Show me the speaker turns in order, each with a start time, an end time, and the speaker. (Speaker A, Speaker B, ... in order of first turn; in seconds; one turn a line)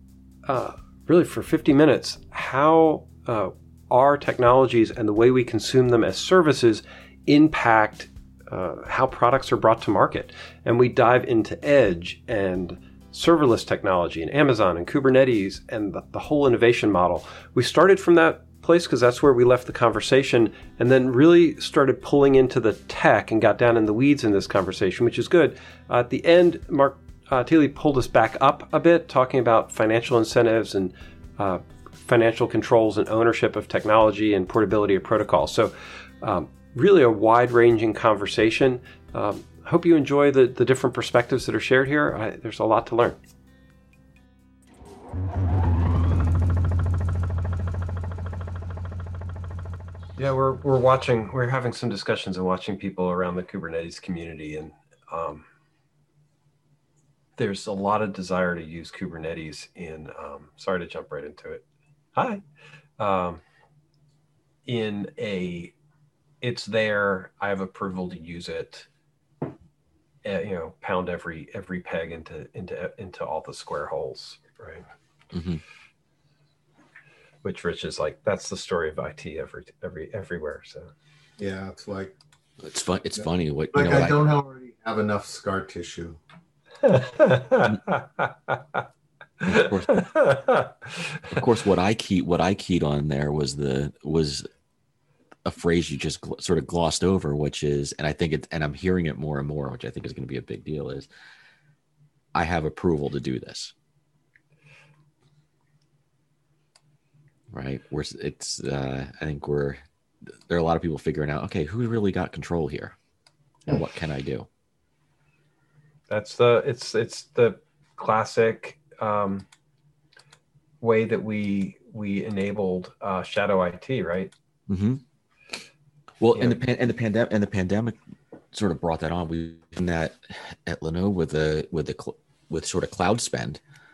Speaker A: 0.4-43.2
Speaker A: 50.2-55.4
Speaker A: 57.4-61.6
Speaker A: 62.1-62.4
Speaker A: 63.0-63.4
Speaker A: 64.7-65.7
Speaker A: 66.4-68.8
Speaker A: 70.2-74.8
Speaker B: 75.3-75.6
Speaker A: 77.4-80.9
Speaker C: 81.4-82.1
Speaker B: 82.6-84.2
Speaker C: 83.1-86.2
Speaker A: 86.8-88.5
Speaker B: 89.5-90.1
Speaker A: 89.5-90.7
Speaker B: 91.3-94.5
Speaker B: 95.4-101.1
Speaker B: 102.3-103.7
Speaker B: 107.5-109.8
Speaker B: 110.5-112.9
Speaker B: 113.7-114.5
Speaker A: 116.1-119.4
Speaker A: 120.8-124.3
Speaker B: 124.7-125.0
Speaker B: 126.2-128.0
Speaker B: 128.5-133.6